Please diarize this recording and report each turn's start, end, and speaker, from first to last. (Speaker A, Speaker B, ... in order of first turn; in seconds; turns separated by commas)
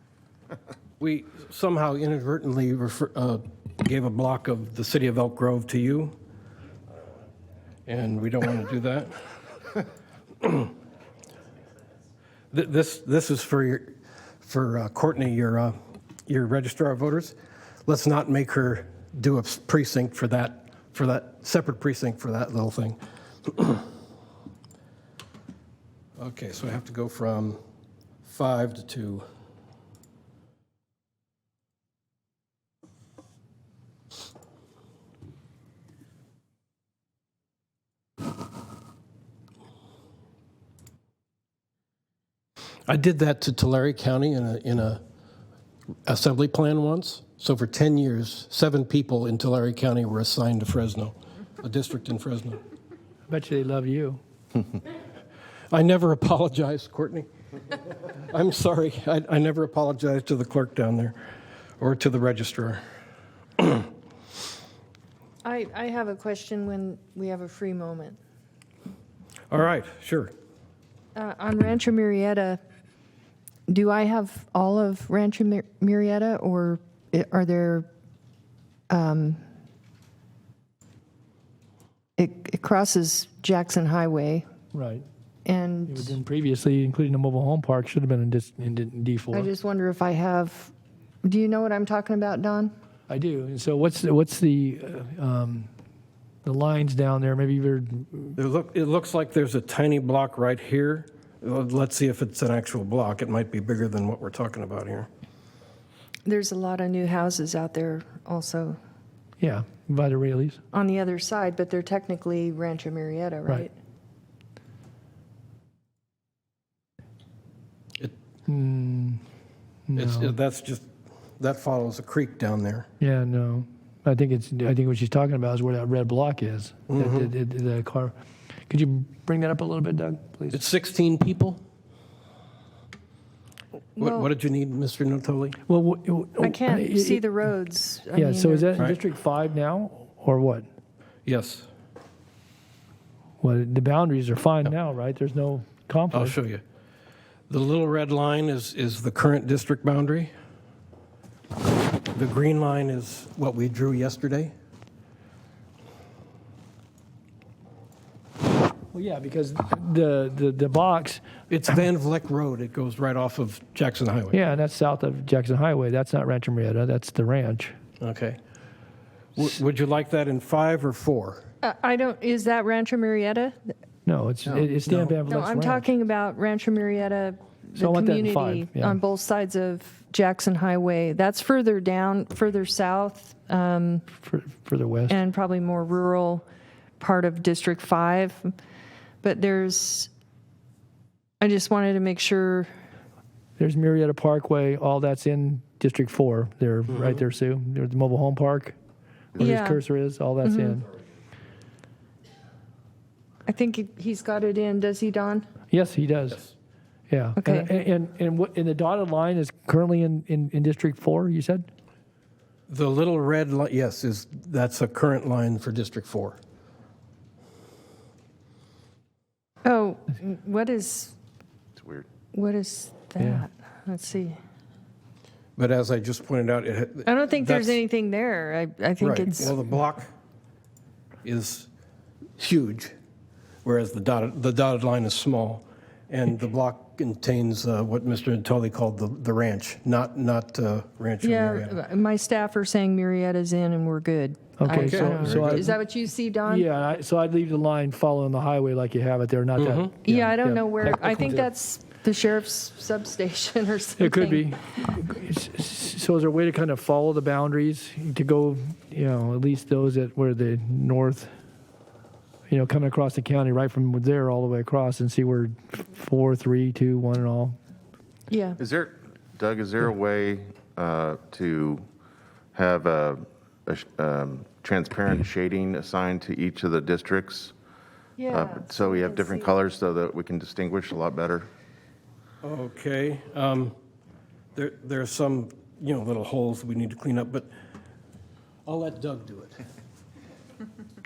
Speaker A: 1.0-6.1, Speaker A: 7.9-9.1, Speaker A: 10.4-10.7, Speaker A: 12.5-15.7, Speaker A: 16.3-17.3, Speaker A: 17.9-23.9, Speaker A: 26.2-27.6, Speaker A: 28.2-29.2, Speaker A: 42.9-45.0, Speaker A: 46.0-52.6, Speaker B: 53.3-54.2, Speaker A: 55.7-57.3, Speaker A: 57.9-61.2, Speaker A: 61.8-62.8, Speaker C: 65.4-68.2, Speaker A: 69.5-70.3, Speaker C: 71.1-72.6, Speaker C: 73.7-77.9, Speaker C: 78.9-79.4, Speaker C: 82.2-84.4, Speaker B: 84.7-85.0, Speaker C: 85.4-86.2, Speaker B: 85.9-89.5, Speaker C: 89.3-90.7, Speaker C: 91.2-92.7, Speaker B: 93.1-95.7, Speaker B: 96.4-98.3, Speaker A: 98.4-105.1, Speaker C: 106.2-108.8, Speaker B: 109.4-110.6, Speaker C: 110.7-113.7, Speaker B: 118.5-119.2, Speaker B: 119.9-120.3, Speaker A: 120.0-120.9, Speaker A: 121.4-122.9, Speaker B: 123.0-128.1, Speaker A: 126.9-127.3, Speaker B: 128.7-130.6, Speaker A: 130.5-131.6, Speaker C: 134.0-134.3, Speaker A: 134.0-135.6, Speaker B: 135.7-137.2, Speaker C: 136.4-138.8, Speaker B: 138.1-140.7, Speaker A: 141.2-141.7, Speaker B: 143.4-146.4, Speaker A: 146.1-146.6, Speaker A: 147.5-150.3, Speaker A: 152.1-154.5, Speaker B: 158.9-161.8, Speaker A: 161.5-164.3, Speaker B: 164.3-167.8, Speaker A: 168.0-168.4, Speaker A: 169.4-171.5, Speaker C: 171.6-173.6, Speaker B: 174.1-175.8, Speaker C: 175.3-184.1, Speaker B: 177.8-179.0, Speaker B: 184.2-185.2, Speaker C: 185.1-186.4, Speaker C: 187.0-188.5, Speaker C: 189.2-190.1, Speaker C: 191.4-192.7, Speaker B: 193.6-198.8, Speaker B: 199.4-200.9, Speaker C: 199.4-199.8, Speaker C: 200.4-200.8, Speaker C: 203.5-205.5, Speaker B: 205.7-206.4, Speaker B: 207.1-211.7, Speaker C: 207.4-207.7, Speaker A: 212.7-216.4, Speaker C: 219.6-221.1, Speaker D: 221.8-222.1, Speaker C: 222.3-224.4, Speaker A: 225.6-227.8, Speaker C: 227.1-229.6, Speaker A: 229.0-230.1, Speaker A: 231.2-231.7, Speaker A: 232.4-232.9, Speaker A: 233.7-241.8, Speaker C: 241.2-246.7, Speaker B: 244.6-245.7, Speaker A: 244.7-245.7, Speaker B: 246.5-251.5, Speaker A: 249.6-249.9, Speaker C: 250.1-254.5, Speaker B: 254.0-261.3, Speaker B: 262.5-267.6, Speaker C: 268.3-268.6, Speaker D: 268.6-271.9, Speaker D: 272.5-277.6, Speaker C: 278.2-279.5, Speaker D: 278.3-281.5, Speaker A: 282.4-283.7, Speaker A: 284.6-287.5, Speaker A: 288.7-289.6